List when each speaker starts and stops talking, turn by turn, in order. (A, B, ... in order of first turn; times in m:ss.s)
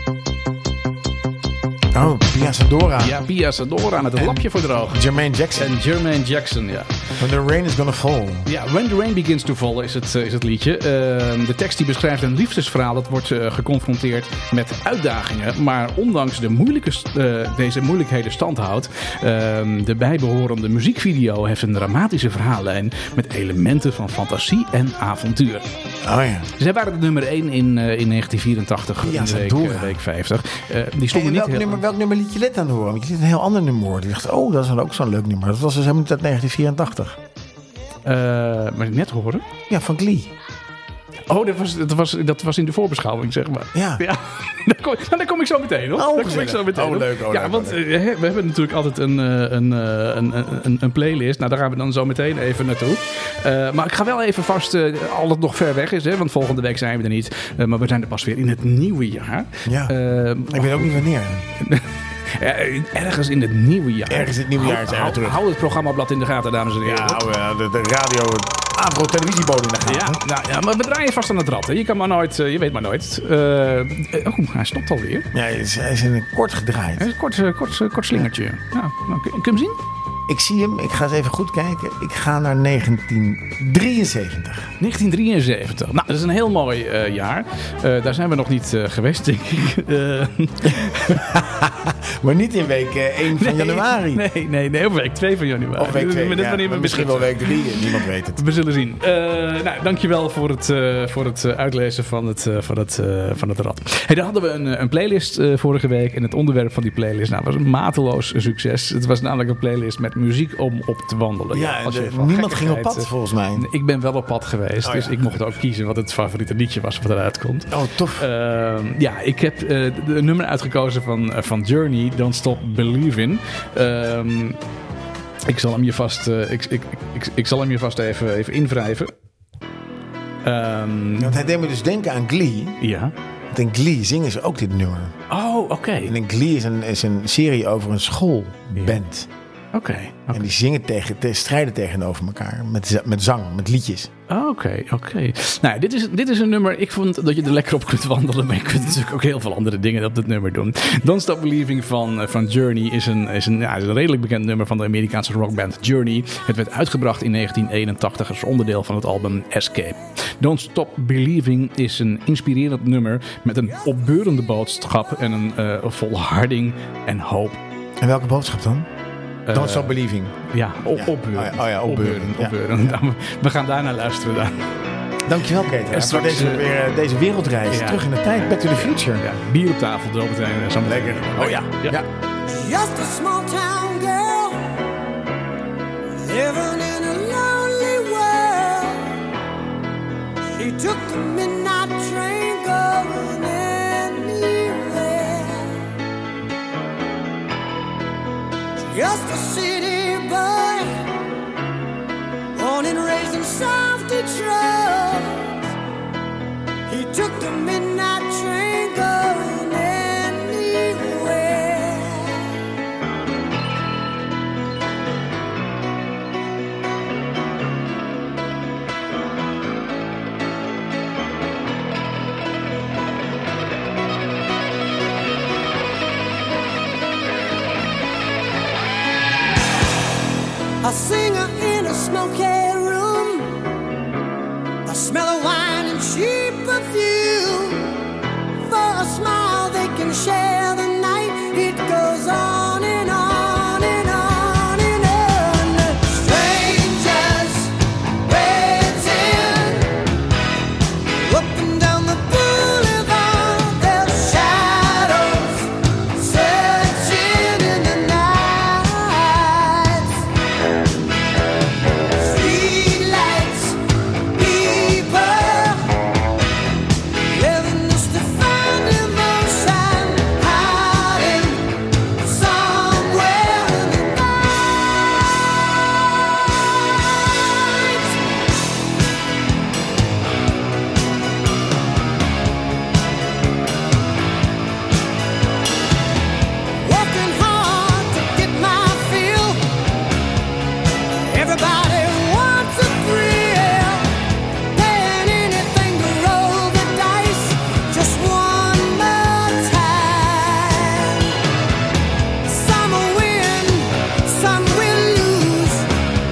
0:01.9-0:03.2 A
0:03.0-0:06.9 B
0:04.2-0:05.7 A
0:07.2-0:08.5 A
0:08.4-0:25.7 B
0:26.0-0:26.5 A
0:26.6-0:31.8 B
0:29.0-0:30.0 A
0:31.1-0:37.2 A
0:38.0-0:39.5 B
0:39.7-0:40.3 A
0:41.3-1:01.0 B
0:43.7-0:44.0 A
0:45.9-0:47.8 A
0:59.6-1:00.0 A
1:00.5-1:01.5 A
1:01.6-1:07.2 B
1:04.1-1:05.4 A
1:06.8-1:10.2 A
1:09.8-1:15.3 B
1:15.3-1:17.1 A
1:17.0-1:19.8 B
1:20.3-1:24.7 A
1:24.8-1:31.3 B
1:30.7-1:34.2 A
1:33.3-2:04.6 B
1:35.8-1:38.4 A
1:51.5-1:53.7 A
1:54.8-1:55.2 A
1:57.7-1:58.2 A
2:05.4-2:09.1 B
2:10.4-2:11.4 B
2:11.2-2:12.8 A
2:12.8-2:13.1 B
2:13.5-2:15.2 A
2:15.3-2:16.1 B
2:16.0-2:19.3 A
2:19.7-2:20.4 B
2:20.3-2:24.1 A
2:24.3-2:47.6 B
2:48.0-2:48.9 A
2:49.5-2:50.0 B
2:49.5-2:52.6 A
2:50.5-2:54.7 B
2:55.2-2:59.2 A
2:55.9-2:56.7 B
2:57.7-2:58.0 B
2:58.7-3:02.0 B
3:00.8-3:02.0 A
3:02.5-3:04.7 C
3:06.2-3:09.2 C
3:10.5-3:15.8 C
3:18.9-3:21.1 C
3:22.5-3:25.7 C
3:26.9-3:32.6 C
3:50.8-3:53.7 C
3:54.8-3:58.1 C
3:58.6-4:10.1 C
4:11.1-4:20.2 C
4:22.1-4:26.2 C
4:27.2-4:35.3 C
4:37.0-4:38.3 C
4:46.8-4:49.8 C
4:51.3-4:54.2 C
4:54.7-5:01.4 C
5:02.4-5:05.9 C